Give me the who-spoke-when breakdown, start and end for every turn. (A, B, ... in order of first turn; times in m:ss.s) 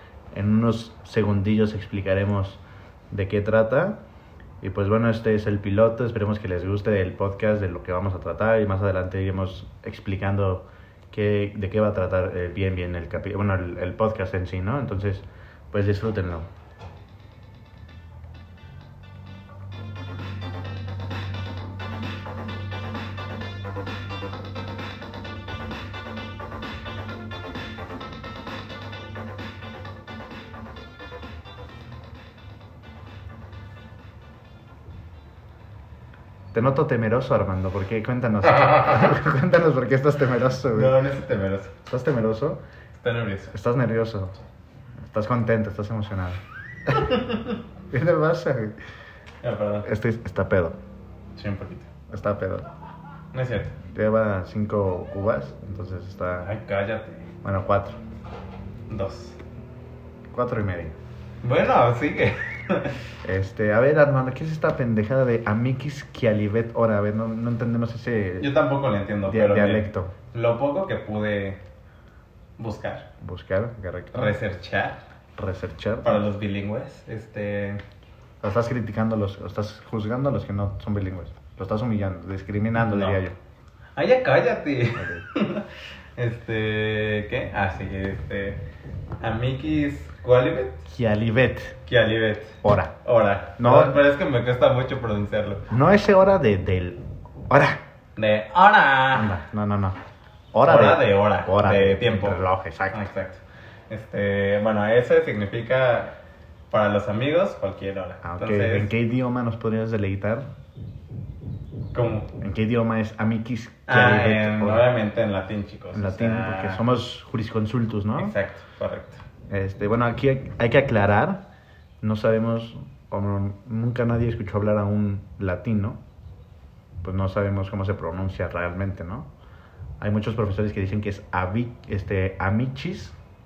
0:00.3-0:04.0 A
0:04.6-0:16.5 A
0:36.5-0:41.0 A
0:38.5-0:39.1 B
0:40.7-0:41.8 B
0:41.9-0:42.6 A
0:43.0-0:43.5 B
0:43.5-0:44.4 A
0:45.0-0:47.1 A
0:46.9-0:47.6 B
0:47.9-0:48.8 A
0:49.4-0:49.9 B
0:49.8-0:50.8 A
0:51.4-0:51.9 B
0:52.1-0:52.7 A
0:53.3-0:53.8 B
0:53.8-0:56.5 A
0:56.4-0:57.3 B
0:57.4-0:58.0 A
0:58.9-0:59.4 B
1:00.3-1:01.0 A
1:01.4-1:03.0 B
1:03.2-1:08.5 A
1:08.4-1:11.6 B
1:09.3-1:10.1 A
1:12.6-1:13.1 B
1:13.2-1:14.4 A
1:14.1-1:15.0 B
1:15.4-1:16.2 A
1:16.0-1:17.8 B
1:18.4-1:23.4 A
1:22.8-1:23.2 B
1:24.0-1:28.6 B
1:25.0-1:25.3 A
1:29.2-1:30.9 B
1:30.9-1:31.8 A
1:31.9-1:35.7 B
1:32.6-1:33.0 A
1:33.6-1:34.0 A
1:35.7-1:37.8 A
1:38.2-1:39.3 B
1:39.1-1:40.0 A
1:40.5-1:43.0 A
1:40.7-1:46.2 B
1:46.7-1:48.9 B
1:48.2-1:50.5 A
1:51.9-1:52.3 B
1:52.4-1:54.9 A
1:53.9-1:56.8 B
1:55.9-1:58.3 A
1:58.2-1:59.2 B
1:59.5-2:01.4 A
2:02.0-2:06.0 A
2:07.0-2:09.3 A
2:10.0-2:13.2 A